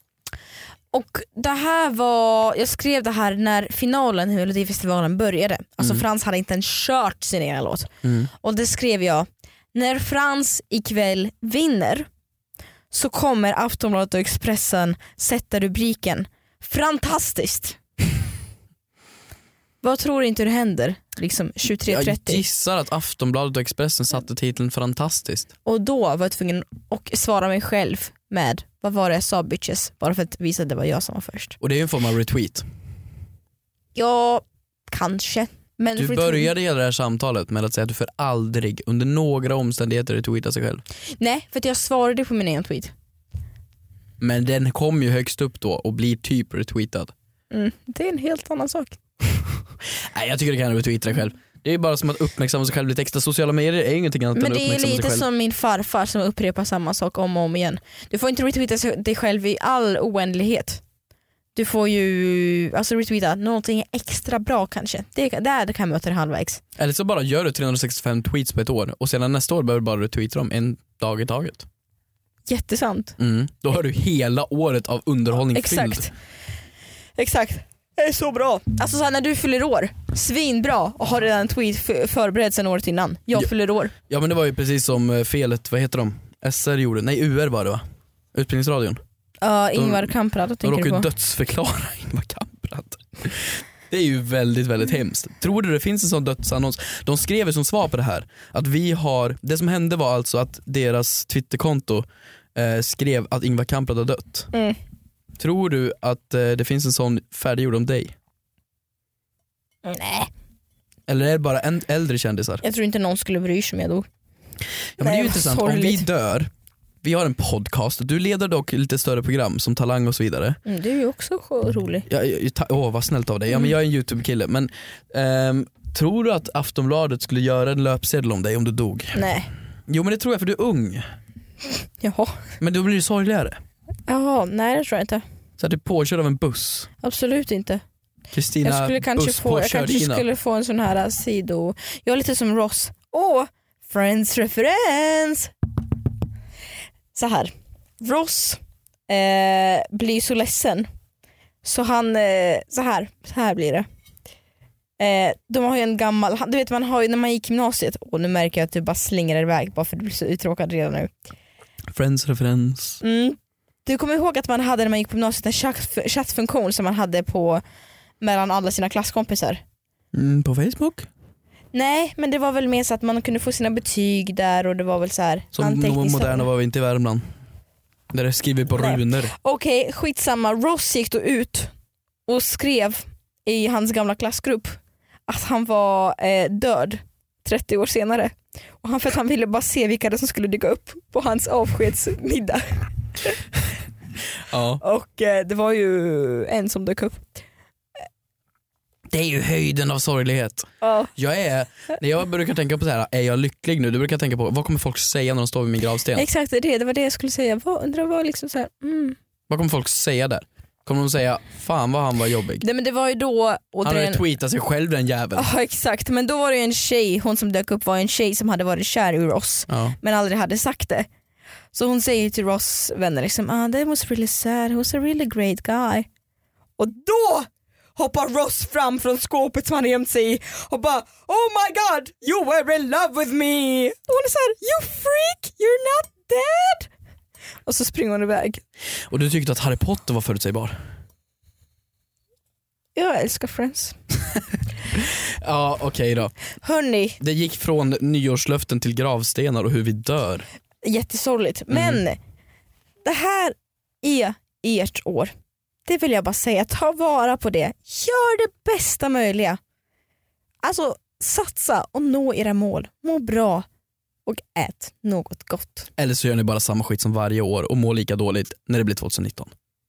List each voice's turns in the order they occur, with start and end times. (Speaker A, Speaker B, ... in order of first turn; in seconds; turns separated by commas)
Speaker A: 0.9-12.1, Speaker B: 8.0-8.3, Speaker A: 12.9-17.8, Speaker A: 19.8-22.4, Speaker B: 21.9-25.5, Speaker A: 25.6-31.6, Speaker B: 31.6-32.6, Speaker A: 34.0-36.5, Speaker B: 36.0-40.8, Speaker A: 41.2-42.9, Speaker B: 44.2-47.1, Speaker A: 47.5-49.0, Speaker B: 50.1-55.2, Speaker A: 54.4-60.8, Speaker A: 61.5-66.6, Speaker B: 66.8-71.7, Speaker A: 72.5-73.2, Speaker B: 73.2-76.1, Speaker A: 75.5-76.1, Speaker A: 77.2-83.9, Speaker B: 84.1-87.8, Speaker B: 88.3-89.0, Speaker A: 89.4-91.1, Speaker B: 89.8-104.5, Speaker A: 104.5-104.8, Speaker B: 105.4-108.2, Speaker A: 109.8-110.3, Speaker B: 111.1-112.6, Speaker A: 112.6-114.1, Speaker A: 115.0-116.1, Speaker B: 115.0-116.5, Speaker B: 117.0-120.6, Speaker A: 120.7-122.1, Speaker B: 122.1-129.2, Speaker A: 129.2-129.5, Speaker B: 129.9-131.1, Speaker A: 132.0-132.4, Speaker B: 132.6-133.6, Speaker A: 134.1-135.2, Speaker B: 135.6-136.9, Speaker A: 137.0-137.8, Speaker B: 138.3-140.2, Speaker A: 138.6-145.5, Speaker A: 147.1-150.9, Speaker A: 151.6-153.9, Speaker A: 155.0-161.1, Speaker B: 161.9-163.0, Speaker A: 163.0-167.6, Speaker A: 168.2-169.6, Speaker B: 170.1-171.1, Speaker A: 171.7-176.5, Speaker B: 175.5-177.2, Speaker B: 178.1-179.3, Speaker A: 178.8-181.7, Speaker A: 182.3-192.7, Speaker B: 194.5-194.8, Speaker A: 194.8-197.3, Speaker B: 199.1-206.2, Speaker A: 200.8-201.1, Speaker A: 206.2-209.2, Speaker B: 209.5-212.6, Speaker A: 212.6-214.2, Speaker B: 213.8-215.5, Speaker A: 215.3-221.1, Speaker B: 219.7-220.0, Speaker A: 221.7-226.1, Speaker A: 226.8-236.9, Speaker A: 237.7-238.6, Speaker B: 239.1-240.7, Speaker A: 242.9-244.0, Speaker B: 244.9-246.3, Speaker A: 246.6-247.2, Speaker B: 247.2-250.5, Speaker A: 250.8-252.2, Speaker B: 251.7-252.0, Speaker A: 253.0-255.3, Speaker A: 255.9-259.6, Speaker A: 260.6-263.7, Speaker A: 264.3-265.9, Speaker B: 266.0-269.5